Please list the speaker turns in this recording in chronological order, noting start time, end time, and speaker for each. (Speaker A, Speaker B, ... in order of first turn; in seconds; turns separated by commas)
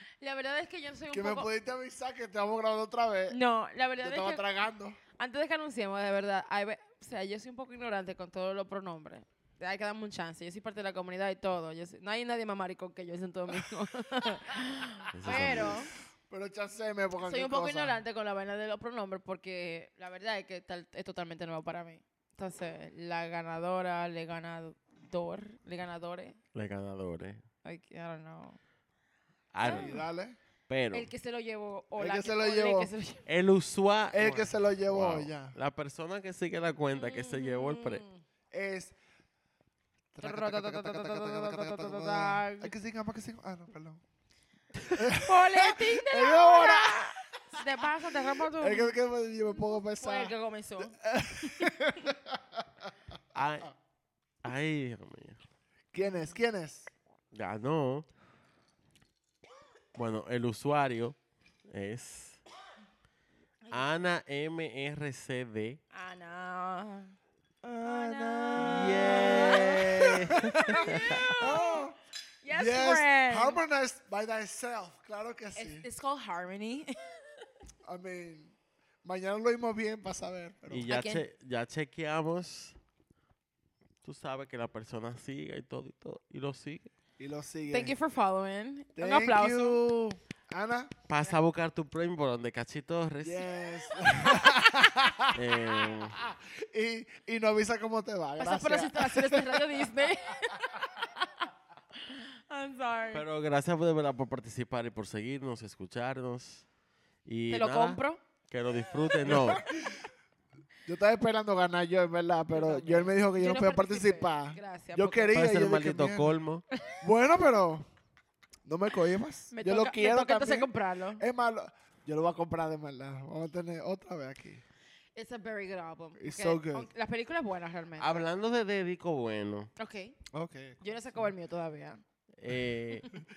Speaker A: 0.2-1.5, Speaker B: 1.1-3.4, Speaker A: 3.3-4.5, Speaker B: 4.0-5.0, Speaker A: 5.2-15.9, Speaker C: 15.1-15.8, Speaker B: 15.2-18.0, Speaker A: 17.2-26.4, Speaker C: 26.5-27.4, Speaker A: 27.6-28.6, Speaker C: 29.5-30.0, Speaker A: 29.6-30.0, Speaker B: 29.6-30.4, Speaker C: 30.7-31.1, Speaker A: 30.9-33.2, Speaker B: 32.0-32.9, Speaker C: 33.2-38.0, Speaker B: 34.1-35.5, Speaker A: 36.9-38.2, Speaker B: 38.5-38.9, Speaker B: 40.1-44.0, Speaker A: 40.2-42.7, Speaker B: 45.0-50.4, Speaker A: 45.1-49.0, Speaker A: 49.5-51.8, Speaker B: 51.0-52.9, Speaker C: 53.3-53.7, Speaker C: 54.4-55.4, Speaker B: 55.9-56.9, Speaker A: 56.0-56.4, Speaker C: 57.3-58.0, Speaker C: 59.9-61.1, Speaker C: 61.7-62.4, Speaker C: 63.7-65.8, Speaker A: 65.9-67.1, Speaker B: 67.6-72.0, Speaker A: 67.8-71.9, Speaker C: 68.5-71.3, Speaker A: 72.4-73.6, Speaker B: 72.5-75.9, Speaker A: 75.5-77.1, Speaker B: 77.8-80.9, Speaker C: 80.7-82.8, Speaker A: 80.9-81.2, Speaker C: 84.0-86.9, Speaker B: 87.2-88.0, Speaker A: 87.7-89.8, Speaker B: 89.0-90.9, Speaker C: 91.1-93.5, Speaker B: 93.2-99.8, Speaker C: 95.3-96.2, Speaker A: 98.4-103.2, Speaker C: 103.1-106.6, Speaker C: 107.2-109.6, Speaker A: 107.5-108.2, Speaker B: 109.2-110.1, Speaker B: 110.8-116.4, Speaker A: 112.5-115.3, Speaker C: 115.3-116.6, Speaker B: 117.0-117.9, Speaker B: 118.6-124.6, Speaker A: 119.5-121.2, Speaker A: 125.1-128.2, Speaker B: 126.2-126.9, Speaker C: 128.0-129.7, Speaker A: 129.8-130.2, Speaker B: 130.3-131.3, Speaker A: 130.8-132.0, Speaker C: 132.4-133.2